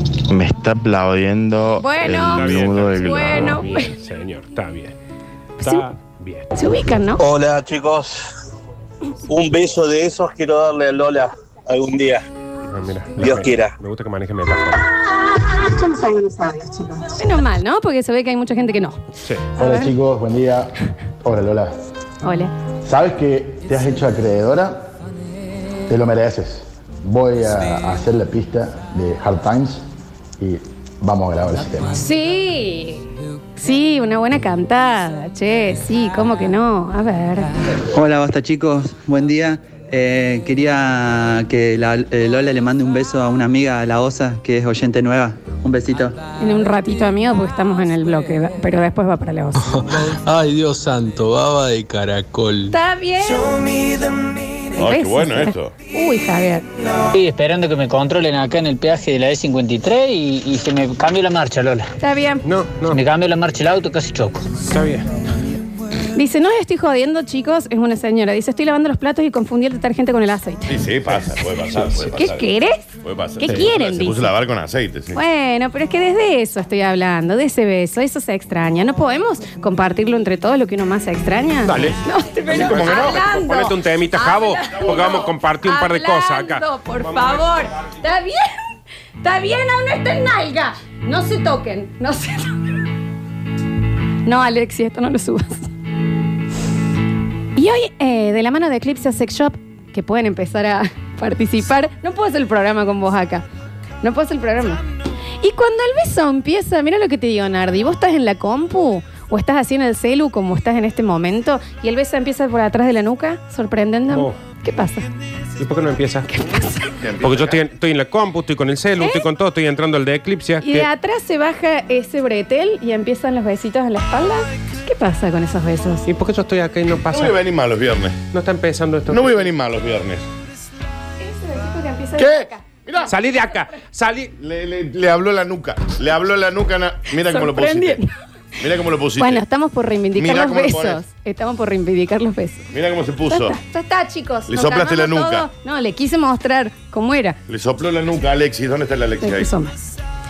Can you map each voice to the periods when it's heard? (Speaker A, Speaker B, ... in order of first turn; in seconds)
Speaker A: 0.3-1.6, 2.3-3.2
Speaker B: 1.7-3.9, 6.6-7.2, 15.7-19.0, 19.6-19.9, 22.2-22.5, 31.9-37.5, 46.4-49.7, 52.7-53.6, 54.8-56.7, 62.0-62.4, 66.2-70.8, 72.1-74.3, 75.1-88.6, 89.2-92.6, 94.2-95.7, 97.6-103.5, 104.0-104.8, 105.4-115.1, 116.3-116.7, 119.0-119.3, 120.6-126.1, 131.2-133.1, 137.2-138.2, 139.2-142.7, 143.3-147.4, 149.2-150.0
Speaker C: 2.0-5.0, 5.6-6.5, 12.7-14.9, 62.5-63.0, 64.7-65.1, 81.7-82.0, 82.5-87.3, 114.1-114.4, 115.6-116.3, 117.2-120.9, 126.1-127.4, 128.3-129.5, 133.1-134.3
Speaker D: 2.4-2.8, 54.8-55.7, 70.7-72.5, 73.0-75.2, 82.5-83.4, 116.9-117.6, 127.1-128.2, 129.1-130.2, 132.2-133.1, 134.4-138.0, 138.6-139.4, 140.2-141.0, 142.7-143.6, 144.5-145.5, 147.5-149.5
Speaker E: 7.2-8.3, 9.3-12.2, 13.2-13.8
Speaker F: 19.6-20.7, 21.2-21.8, 22.8-24.9, 25.9-29.8, 30.4-32.0
Speaker G: 37.9-46.2
Speaker H: 49.6-52.8
Speaker I: 57.1-61.9, 62.9-64.5